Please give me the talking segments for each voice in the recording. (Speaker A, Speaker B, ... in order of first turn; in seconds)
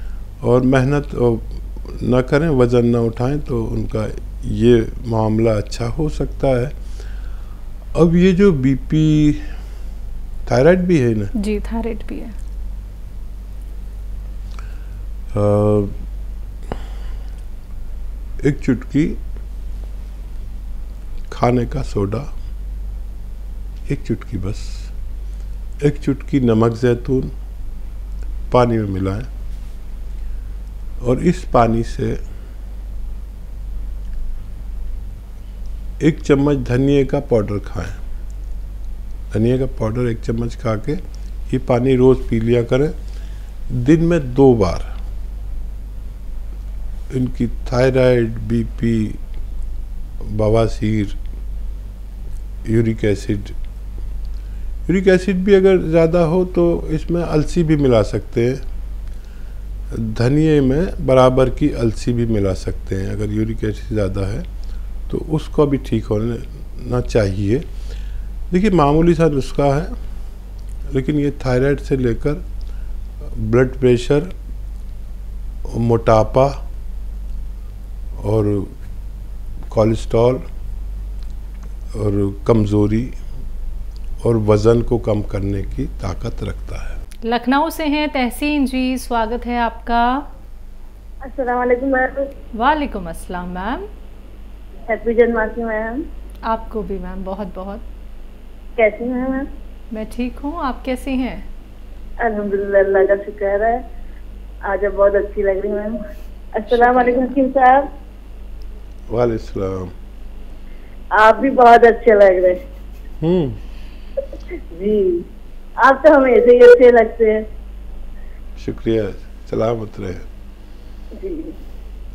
Speaker A: 0.4-6.7, 7.9-9.4, 10.4-11.3, 15.3-15.9, 18.4-19.2, 21.3-22.3, 23.9-24.9, 25.8-27.3, 28.5-29.3, 31.0-32.2, 36.0-38.0, 39.3-42.9, 43.7-44.9, 47.1-49.2, 50.2-51.2, 52.6-53.5, 54.9-58.6, 59.9-64.5, 65.1-67.6, 68.5-69.9, 70.9-72.4, 73.3-74.3, 75.7-76.6, 78.2-78.7, 79.7-80.4, 81.9-83.1, 84.2-87.0, 109.1-109.9, 113.2-113.6, 118.6-120.2
Speaker B: 11.3-12.3, 87.2-90.2, 92.5-93.9, 96.4-97.8, 99.9-101.4, 106.7-107.4
Speaker C: 91.2-92.2, 94.9-96.0, 98.8-99.5, 102.2-103.8, 104.7-106.0, 106.6-107.9, 111.2-112.6, 114.7-115.2, 115.8-117.4, 121.2-121.5